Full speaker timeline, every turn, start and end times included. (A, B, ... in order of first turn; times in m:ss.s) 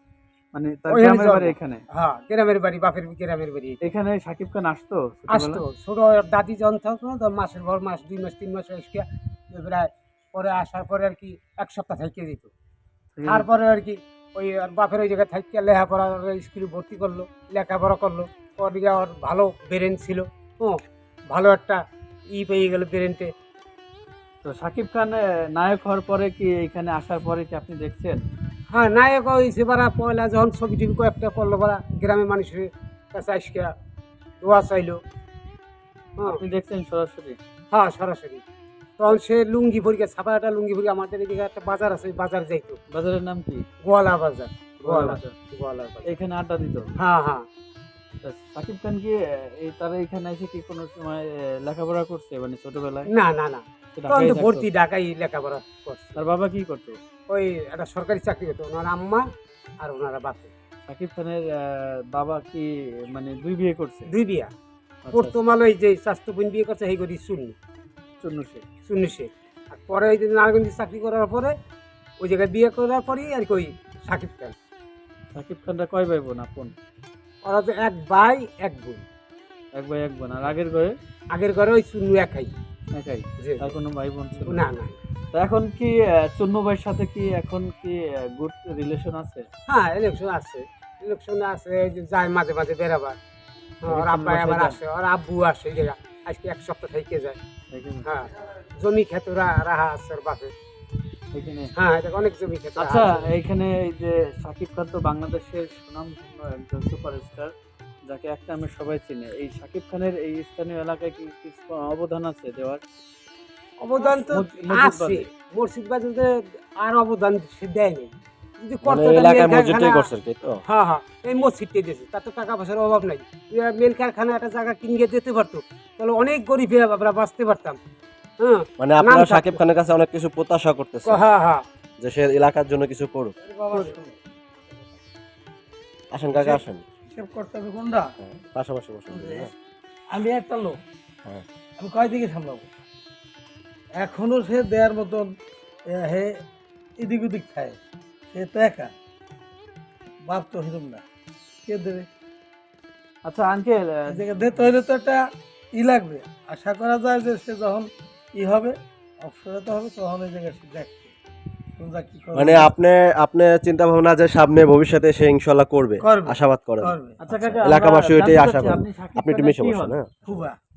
0:00.5-0:01.8 A
0:00.9-0:03.8 B
0:03.8-0:05.6 A
0:05.3-0:12.5 B
0:13.2-0:13.5 A
0:13.3-0:21.8 B
0:22.3-0:23.3 B
0:24.4-0:28.2 A
0:28.7-0:33.7 B
0:34.4-0:35.0 B
0:36.2-0:37.4 A
0:37.7-0:38.4 B
0:39.0-0:42.8 B
0:42.9-0:43.6 A
0:43.8-0:46.2 B
0:44.8-0:45.3 A
0:46.1-0:46.9 A
0:47.0-0:47.5 B
0:48.2-0:53.1 A
0:53.1-0:56.2 B
0:54.0-0:54.7 A
0:56.2-0:57.0 A
0:57.3-0:59.3 B
0:59.8-1:00.5 B
1:00.9-1:04.1 A
1:04.1-1:04.5 B
1:05.0-1:05.3 A
1:05.1-1:07.6 B
1:08.2-1:08.6 A
1:08.9-1:11.5 B
1:12.2-1:14.5 B
1:15.4-1:16.7 A
1:17.4-1:19.0 B
1:19.8-1:21.0 A
1:21.3-1:22.5 B
1:22.9-1:24.6 A
1:23.4-1:23.7 B
1:24.5-1:25.0 B
1:25.3-1:29.5 A
1:29.7-1:33.2 B
1:33.8-1:37.4 B
1:33.9-1:34.8 A
1:37.7-1:38.1 A
1:38.1-1:40.5 B
1:41.3-1:41.7 A
1:41.8-1:43.3 B
1:42.8-1:47.5 A
1:48.1-1:52.8 A
1:53.8-2:00.1 B
1:54.0-1:55.3 A
1:58.8-2:00.6 C
2:00.7-2:07.8 B
2:08.4-2:09.6 B
2:08.8-2:11.2 C
2:11.1-2:11.6 B
2:12.0-2:13.3 C
2:13.4-2:14.2 D
2:16.1-2:16.8 C
2:16.3-2:18.1 D
2:18.2-2:19.5 C
2:19.1-2:19.5 D
2:20.1-2:20.8 D
2:21.8-2:22.7 D
2:24.0-2:25.3 D
2:25.9-2:26.3 D
2:27.0-2:27.8 D
2:28.3-2:28.9 D
2:30.3-2:31.0 D
2:31.6-2:32.1 D
2:33.2-2:34.2 A
2:34.1-2:35.2 D
2:35.7-2:41.1 D
2:41.8-2:42.7 D
2:42.4-2:50.2 C
2:46.0-2:47.2 D
2:47.2-2:50.0 A
2:50.2-2:50.6 D